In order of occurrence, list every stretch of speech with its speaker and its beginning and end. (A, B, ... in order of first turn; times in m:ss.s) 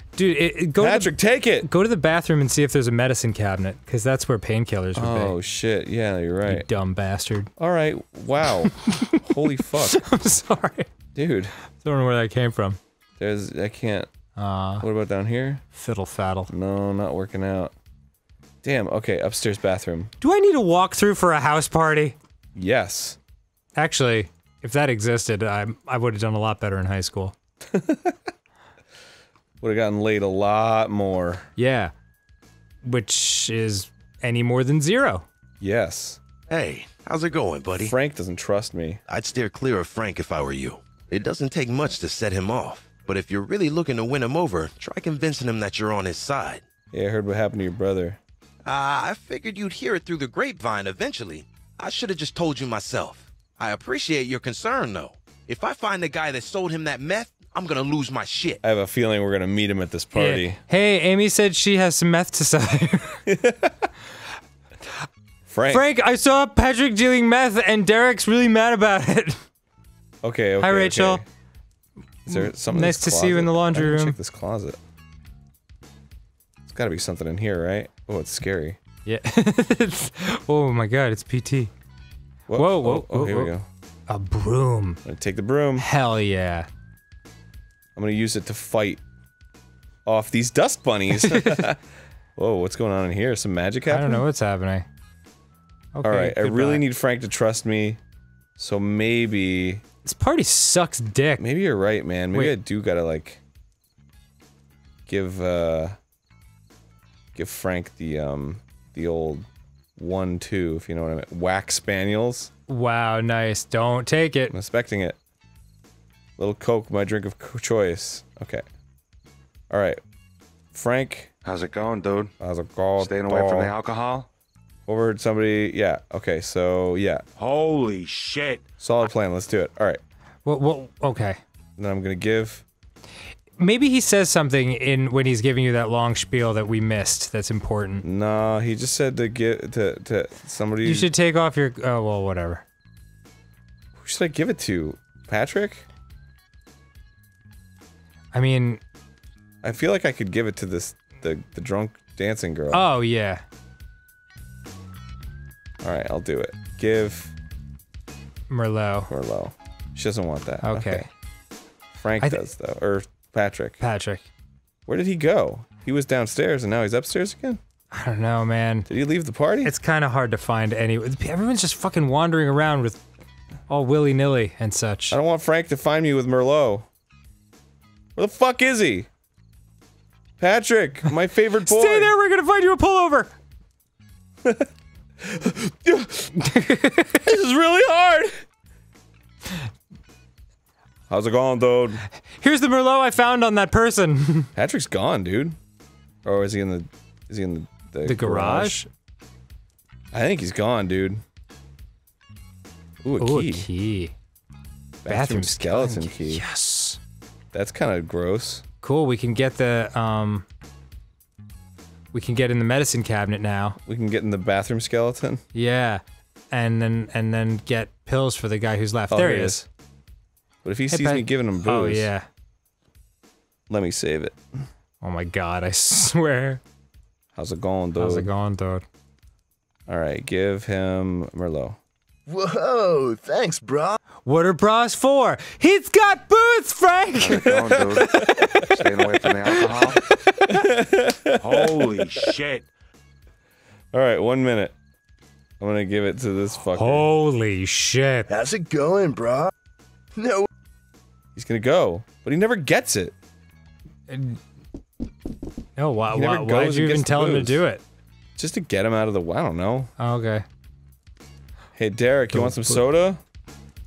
0:00.2-0:05.3 A
0:00.8-0:01.7 B
0:04.9-0:06.7 B
0:06.4-0:07.5 A
0:07.6-0:10.0 B
0:08.8-0:10.9 A
0:11.1-0:11.5 B
0:11.7-0:12.8 A
0:13.2-0:14.1 B
0:14.4-0:14.8 A
0:14.8-0:15.6 B
0:15.7-0:16.5 A
0:16.5-0:17.7 B
0:18.6-0:20.1 B
0:20.2-0:22.2 A
0:22.5-0:23.2 B
0:23.8-0:27.3 A
0:27.7-0:28.2 B
0:29.6-0:31.4 B
0:31.6-0:31.9 A
0:32.8-0:35.2 A
0:35.6-0:36.2 B
0:36.5-0:37.9 C
0:37.8-0:39.0 B
0:39.1-0:46.6 C
0:46.9-0:48.2 B
0:48.6-0:58.6 C
0:58.6-1:00.6 B
1:00.1-1:03.2 A
1:03.2-1:03.9 B
1:05.5-1:05.9 B
1:05.7-1:09.4 A
1:10.2-1:11.2 B
1:10.6-1:11.2 A
1:12.2-1:14.2 A
1:12.2-1:14.8 B
1:16.6-1:18.8 B
1:19.0-1:21.7 A
1:22.5-1:23.6 B
1:22.5-1:23.5 A
1:24.1-1:25.0 A
1:25.0-1:25.9 B
1:25.8-1:26.7 A
1:28.0-1:29.0 B
1:30.0-1:31.8 B
1:31.2-1:31.6 A
1:32.4-1:34.2 B
1:33.8-1:34.8 A
1:35.9-1:36.8 A
1:36.0-1:38.0 B
1:38.6-1:39.8 B
1:40.0-1:41.4 A
1:41.4-1:43.4 B
1:45.1-1:46.0 B
1:47.3-1:49.4 B
1:50.0-1:52.5 B
1:52.7-1:54.5 A
1:54.5-1:55.2 B
1:56.4-1:58.6 B
1:59.7-2:00.0 B
2:00.7-2:01.3 B
2:01.4-2:02.3 D
2:02.4-2:03.7 B
2:03.0-2:04.3 D
2:04.9-2:07.2 B
2:07.4-2:08.6 D
2:08.8-2:10.0 B
2:10.4-2:11.4 A
2:11.8-2:12.6 B
2:13.6-2:18.0 A
2:18.0-2:21.1 B
2:20.8-2:22.6 A
2:24.0-2:25.8 B
2:28.3-2:28.8 A
2:29.6-2:32.9 B
2:32.7-2:33.4 A
2:35.8-2:37.3 B
2:38.5-2:39.1 A
2:39.1-2:41.1 B
2:40.6-2:41.1 A
2:42.0-2:43.8 B
2:43.8-2:44.3 A
2:44.9-2:47.6 B
2:47.9-2:48.9 A
2:48.9-2:49.7 B
2:49.6-2:53.0 A
2:53.7-2:55.2 A
2:55.1-2:56.9 B
2:58.2-2:59.1 B
3:00.4-3:02.1 B
3:01.6-3:03.3 A
3:05.2-3:06.3 B
3:06.4-3:07.2 A
3:07.2-3:08.4 B
3:11.1-3:12.0 B
3:12.3-3:14.5 A
3:14.5-3:15.6 B
3:16.2-3:18.8 B
3:18.0-3:18.9 A
3:20.1-3:21.2 B
3:23.0-3:23.7 B
3:23.2-3:24.1 A
3:25.0-3:26.4 B
3:25.1-3:27.0 A
3:27.5-3:28.6 B
3:28.8-3:30.4 A
3:32.1-3:33.8 A
3:33.8-3:35.4 B
3:35.5-3:39.6 A
3:39.1-3:39.6 B
3:40.6-3:42.1 B
3:40.9-3:42.3 A
3:43.7-3:44.4 B
3:45.0-3:46.6 A
3:47.3-3:48.3 B
3:48.0-3:48.8 A
3:49.9-3:51.8 B
3:52.3-3:54.0 E
3:54.2-3:58.7 A
3:57.2-4:00.0 D
3:57.3-3:58.6 B
3:59.4-4:00.4 A
4:00.4-4:02.1 B
4:01.4-4:02.7 D
4:03.9-4:04.7 B
4:05.6-4:07.1 B
4:06.7-4:08.3 A
4:08.3-4:09.5 E
4:10.1-4:10.5 E
4:11.4-4:13.1 B
4:14.1-4:14.4 A
4:15.8-4:17.8 A
4:16.1-4:17.6 B
4:18.4-4:19.9 B
4:20.0-4:20.4 A
4:21.8-4:23.2 B
4:22.3-4:22.8 A